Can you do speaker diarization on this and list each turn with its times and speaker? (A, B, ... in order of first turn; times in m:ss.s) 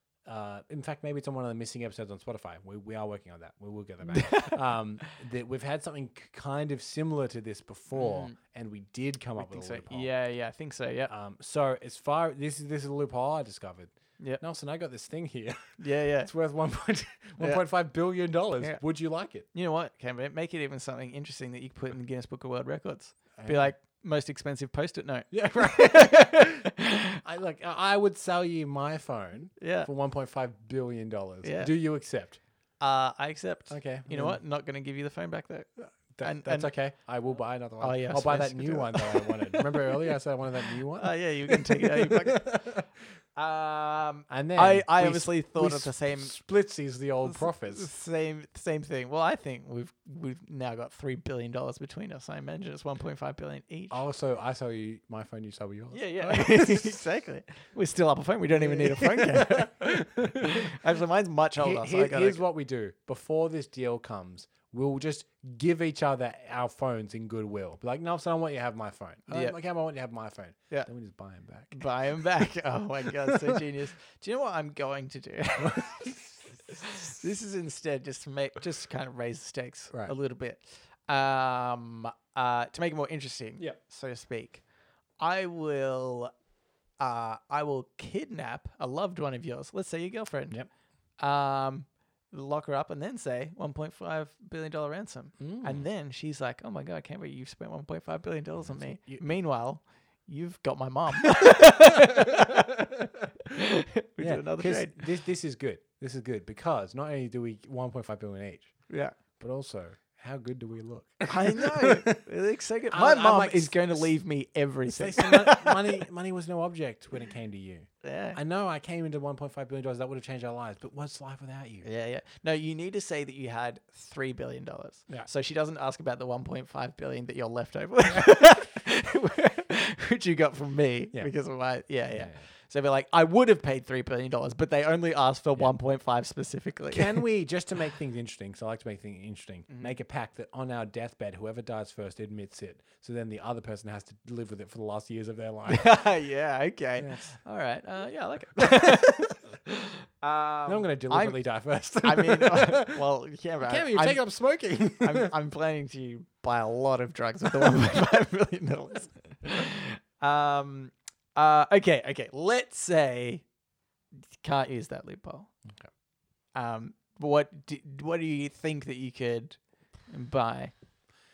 0:00.2-0:10.1 A
0:04.1-0:04.6 B
0:07.9-0:08.4 B
0:09.4-0:11.1 B
0:11.1-0:19.5 A
0:15.8-0:16.3 B
0:19.5-0:27.2 B
0:23.4-0:23.7 A
0:25.3-0:26.7 A
0:27.2-0:32.4 A
0:29.6-0:29.9 B
0:31.4-0:31.7 B
0:32.8-0:36.7 B
0:33.7-0:34.4 A
0:36.1-0:42.9 A
0:37.8-0:40.0 B
0:41.0-0:42.6 B
0:43.4-0:46.4 B
0:44.3-0:47.9 A
0:47.2-0:54.0 B
0:53.9-0:57.0 A
0:55.9-1:02.4 B
0:58.5-1:00.8 A
1:01.6-1:12.2 A
1:09.3-1:09.6 B
1:11.7-1:24.6 B
1:13.1-1:13.6 A
1:15.6-1:16.2 A
1:25.2-1:26.3 B
1:27.0-1:30.6 B
1:31.2-1:42.8 B
1:35.4-1:35.8 A
1:38.6-1:39.2 A
1:41.3-1:42.6 A
1:43.5-1:45.0 B
1:44.2-1:48.8 A
1:48.9-1:49.1 B
1:49.4-1:52.2 A
1:51.2-1:56.0 B
1:52.9-1:54.1 A
1:54.9-2:01.8 A
1:58.0-1:58.4 B
2:01.8-2:17.2 B
2:12.1-2:12.4 A
2:16.9-2:26.0 A
2:19.7-2:19.9 B
2:25.7-2:31.4 B
2:27.0-2:27.4 A
2:28.7-2:29.1 A
2:30.6-2:33.0 A
2:31.9-2:34.2 B
2:33.6-2:35.3 A
2:35.0-2:43.4 B
2:44.4-2:45.5 B
2:46.5-2:50.7 B